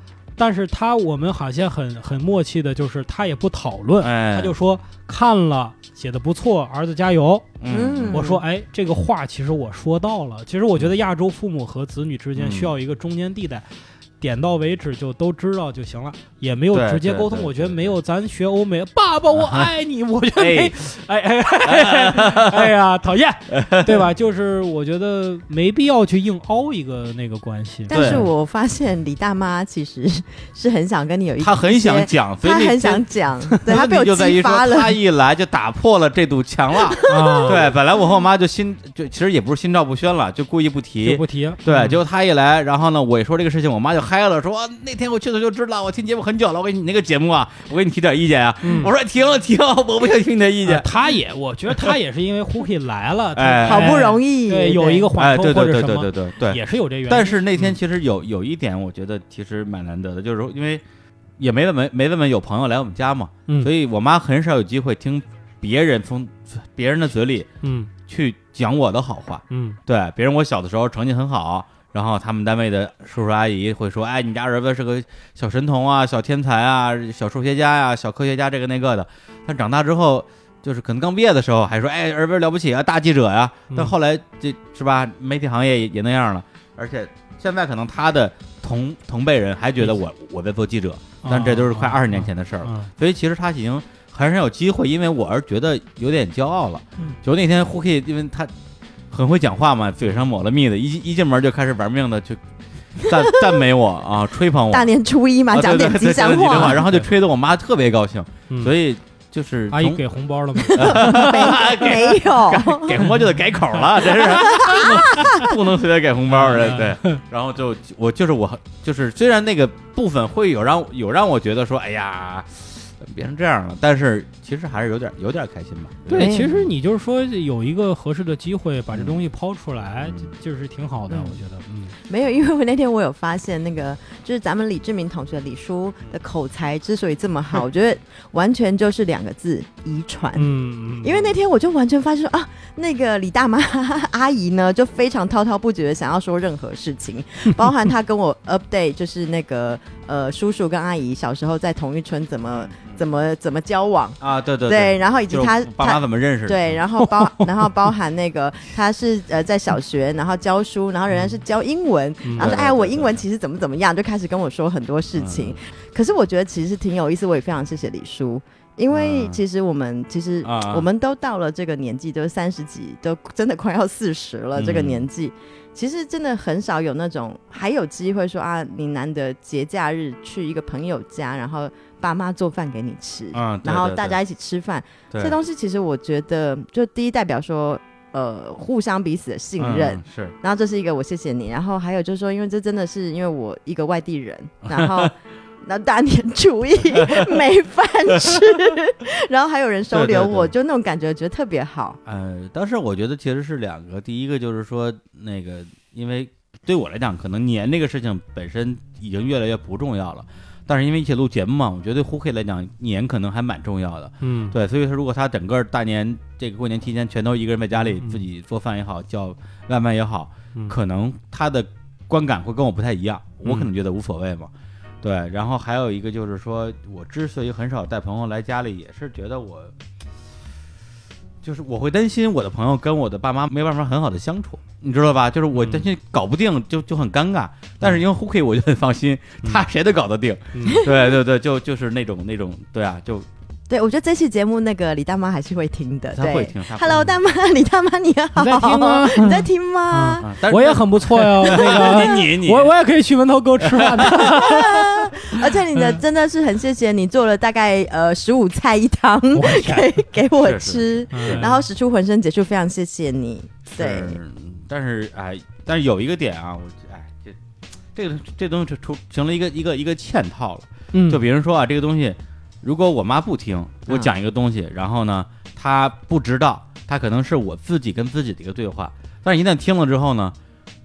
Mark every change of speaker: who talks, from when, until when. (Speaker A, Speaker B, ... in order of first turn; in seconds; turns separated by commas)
Speaker A: 0.4-7.6, Speaker B: 4.0-4.6, Speaker B: 7.6-8.3, Speaker C: 7.7-8.4, Speaker A: 8.1-13.7, Speaker B: 12.3-12.7, Speaker A: 14.2-28.3, Speaker B: 16.7-18.0, Speaker B: 19.3-19.7, Speaker B: 20.3-20.8, Speaker B: 21.6-22.7, Speaker B: 23.5-24.1, Speaker C: 27.9-35.0, Speaker B: 27.9-28.3, Speaker B: 31.4-33.0, Speaker B: 33.6-50.9, Speaker C: 36.9-37.6, Speaker A: 37.0-37.6, Speaker A: 41.0-42.0, Speaker A: 48.6-48.9, Speaker A: 50.6-57.8, Speaker B: 51.7-52.0, Speaker B: 53.3-54.0, Speaker C: 53.6-55.1, Speaker B: 55.1-60.8, Speaker B: 61.4-67.5, Speaker A: 67.6-67.9, Speaker B: 68.1-98.5, Speaker A: 69.5-69.8, Speaker A: 91.2-92.9, Speaker B: 99.1-102.4, Speaker B: 103.0-104.9, Speaker C: 103.0-103.4, Speaker C: 104.7-106.8, Speaker B: 105.5-110.0, Speaker A: 109.7-112.1, Speaker B: 110.6-126.7, Speaker C: 110.8-113.0, Speaker A: 113.0-113.2, Speaker A: 114.2-115.3, Speaker C: 114.3-115.4, Speaker A: 116.3-117.2, Speaker A: 126.1-131.9, Speaker C: 126.1-126.5, Speaker B: 128.9-129.2, Speaker B: 130.0-130.3, Speaker C: 132.0-140.5, Speaker A: 140.3-141.3, Speaker C: 141.0-202.0, Speaker B: 152.5-153.0, Speaker B: 154.2-156.8, Speaker A: 157.0-157.4, Speaker A: 162.2-162.5, Speaker B: 162.3-163.2, Speaker B: 165.2-165.6, Speaker B: 168.9-169.4, Speaker B: 170.4-170.8, Speaker B: 174.6-175.1, Speaker B: 183.3-184.2, Speaker B: 185.1-185.3, Speaker B: 189.6-190.3, Speaker B: 194.7-195.1, Speaker B: 196.9-197.4, Speaker B: 198.1-198.6, Speaker B: 199.9-200.5, Speaker B: 202.1-229.7, Speaker A: 214.2-214.6, Speaker A: 217.9-218.2, Speaker A: 223.4-223.7, Speaker B: 231.4-243.3, Speaker A: 235.5-235.9, Speaker A: 240.5-240.8, Speaker C: 243.7-250.3, Speaker B: 246.1-247.1, Speaker A: 248.3-255.1, Speaker B: 250.2-252.7, Speaker C: 251.4-252.1, Speaker B: 253.6-254.6, Speaker C: 254.2-264.2, Speaker A: 255.7-256.0, Speaker A: 259.3-260.1, Speaker B: 260.4-261.5, Speaker A: 261.1-261.6, Speaker B: 263.7-267.4, Speaker B: 267.9-280.4, Speaker A: 270.9-271.2